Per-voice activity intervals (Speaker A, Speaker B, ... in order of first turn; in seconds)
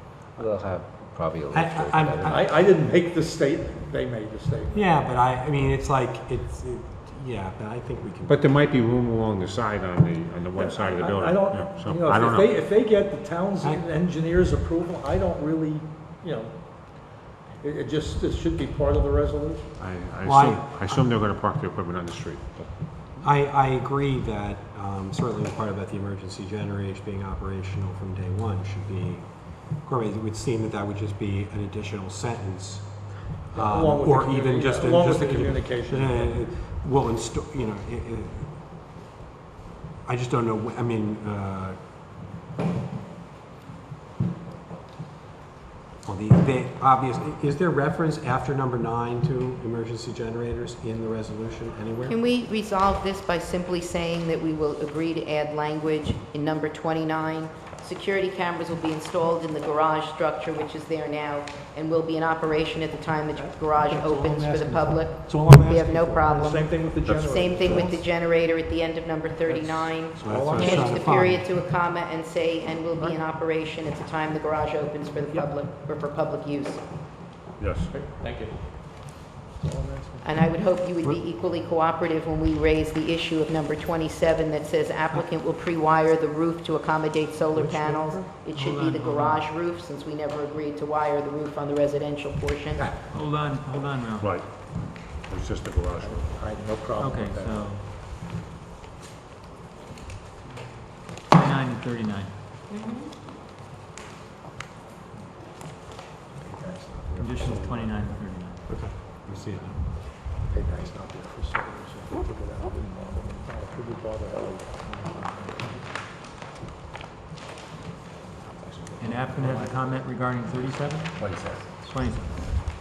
Speaker A: 0.4-2.5, 121.2-121.5
Speaker B: 1.5-2.5, 4.7-8.4, 20.2-21.1, 23.2-29.3, 29.8-38.6, 40.0-41.8, 46.0-52.2, 70.2-71.5, 87.5-88.3, 108.7-109.8
Speaker C: 2.3-4.9, 10.5-19.7, 33.5-36.4, 63.4-68.0, 69.5-71.2, 79.6-80.3, 96.0-97.7, 106.3-107.9, 110.4-115.9, 118.4-119.7
Speaker D: 8.2-12.5, 19.8-22.7, 67.1-67.3, 70.3-70.8, 77.6-77.9, 94.2-96.2
Speaker E: 52.0-76.8, 80.2-92.8, 102.7-103.1
Speaker F: 88.5-89.4, 93.1-94.3, 97.0-97.8, 101.3-102.3, 107.2-108.6, 119.0-121.3, 121.8-122.6